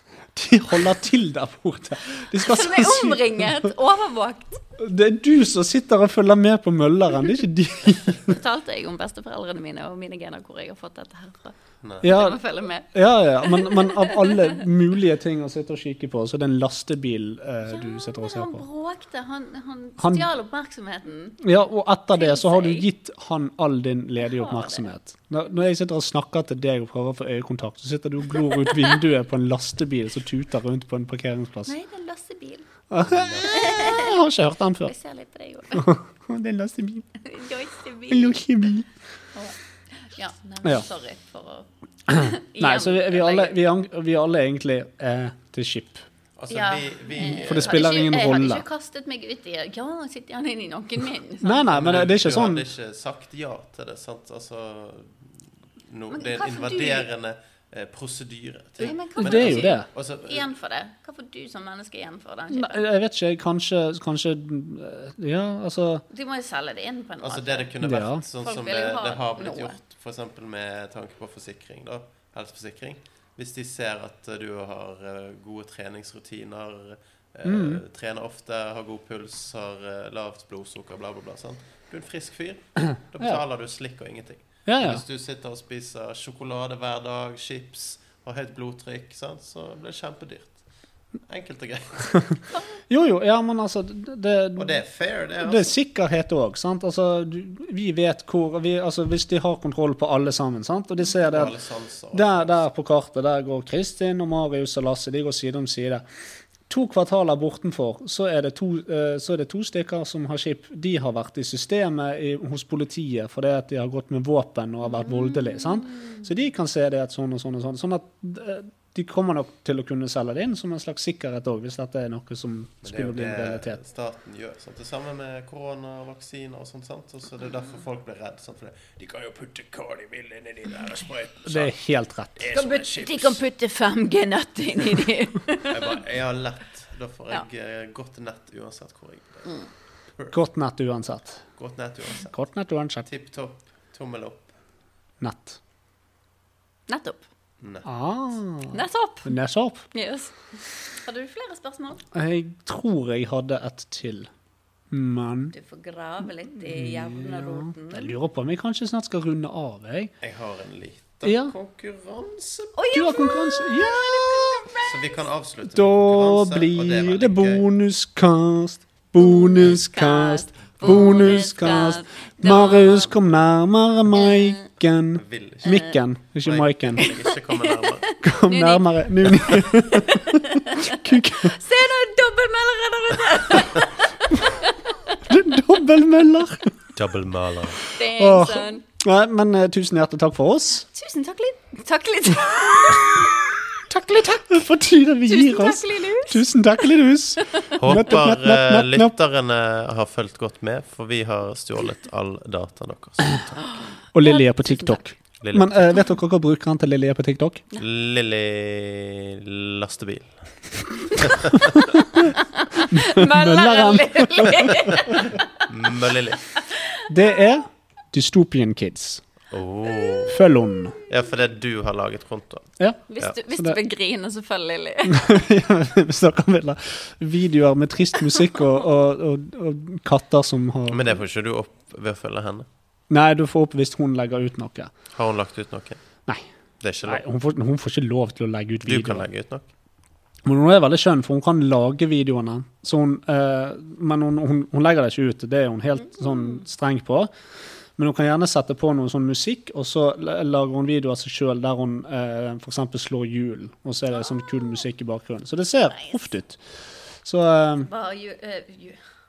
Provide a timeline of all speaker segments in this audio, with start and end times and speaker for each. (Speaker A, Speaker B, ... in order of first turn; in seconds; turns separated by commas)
Speaker A: 0.3-3.7, Speaker B: 2.3-4.6, Speaker A: 4.8-8.4, Speaker B: 8.3-14.3, Speaker C: 11.8-12.1, Speaker A: 12.0-12.4, Speaker A: 12.9-18.6, Speaker B: 17.6-21.4, Speaker A: 20.0-20.3, Speaker A: 21.4-31.7, Speaker B: 22.1-22.9, Speaker B: 24.2-24.9, Speaker B: 31.6-32.7, Speaker A: 32.9-34.9, Speaker C: 33.0-33.5, Speaker B: 33.4-34.2, Speaker B: 34.8-35.9, Speaker A: 35.7-37.1, Speaker B: 37.2-38.4, Speaker A: 38.1-38.9, Speaker B: 39.3-43.6, Speaker A: 42.1-46.0, Speaker C: 46.4-47.8, Speaker B: 46.5-51.8, Speaker A: 47.2-48.6, Speaker A: 51.4-52.7, Speaker C: 51.7-60.5, Speaker B: 56.1-57.1, Speaker B: 58.8-62.8, Speaker A: 59.2-59.9, Speaker A: 62.5-66.0, Speaker B: 66.1-67.7, Speaker C: 67.2-90.7, Speaker A: 67.8-68.2, Speaker B: 68.3-69.8, Speaker A: 77.4-77.8, Speaker A: 84.7-85.0, Speaker C: 91.3-92.4, Speaker A: 92.9-94.8, Speaker C: 94.5-95.7, Speaker A: 95.4-101.5, Speaker C: 101.2-102.7, Speaker A: 102.1-106.0, Speaker A: 106.7-123.8, Speaker C: 122.8-131.7, Speaker A: 131.4-132.4, Speaker C: 132.4-133.4, Speaker B: 132.5-135.9, Speaker C: 135.7-139.6, Speaker A: 140.3-141.4, Speaker C: 141.6-142.3, Speaker A: 142.2-143.1, Speaker C: 143.0-144.5, Speaker A: 145.2-145.6, Speaker B: 146.9-147.2, Speaker C: 147.6-147.9, Speaker A: 147.8-149.8, Speaker B: 148.7-149.3, Speaker B: 149.9-152.0, Speaker A: 152.1-154.3, Speaker A: 154.9-155.5, Speaker B: 155.5-158.1, Speaker A: 156.6-160.1, Speaker C: 160.2-162.7, Speaker A: 161.2-161.5, Speaker B: 162.8-164.9, Speaker A: 162.9-164.7, Speaker C: 164.8-167.7, Speaker A: 165.7-177.1, Speaker B: 169.2-173.1, Speaker C: 170.9-171.2, Speaker B: 174.2-174.6, Speaker C: 175.2-175.8, Speaker B: 175.7-176.0, Speaker C: 176.4-178.1, Speaker B: 177.0-185.2, Speaker A: 178.2-181.6, Speaker A: 185.2-186.7, Speaker C: 186.9-187.8, Speaker B: 187.9-188.8, Speaker A: 188.1-190.9, Speaker B: 190.9-193.5, Speaker A: 193.9-199.1, Speaker B: 195.2-196.8, Speaker B: 197.4-197.7, Speaker C: 197.7-203.9, Speaker B: 203.6-205.0, Speaker A: 204.1-207.6, Speaker C: 205.4-205.8, Speaker C: 207.8-210.4, Speaker B: 211.1-211.5, Speaker C: 211.1-211.8, Speaker B: 212.3-215.6, Speaker A: 212.9-214.7, Speaker C: 215.6-216.5, Speaker B: 216.6-217.1, Speaker A: 217.1-219.2, Speaker C: 219.5-220.4, Speaker A: 220.3-221.0, Speaker C: 221.1-223.3, Speaker A: 222.8-223.8, Speaker B: 223.1-225.3, Speaker A: 225.1-231.1, Speaker C: 230.9-232.7, Speaker A: 233.1-234.9, Speaker C: 235.1-236.0, Speaker C: 236.8-237.2, Speaker A: 237.0-239.3, Speaker C: 238.8-239.7, Speaker A: 240.4-247.3, Speaker A: 248.0-256.6, Speaker A: 257.2-257.9, Speaker B: 257.8-259.0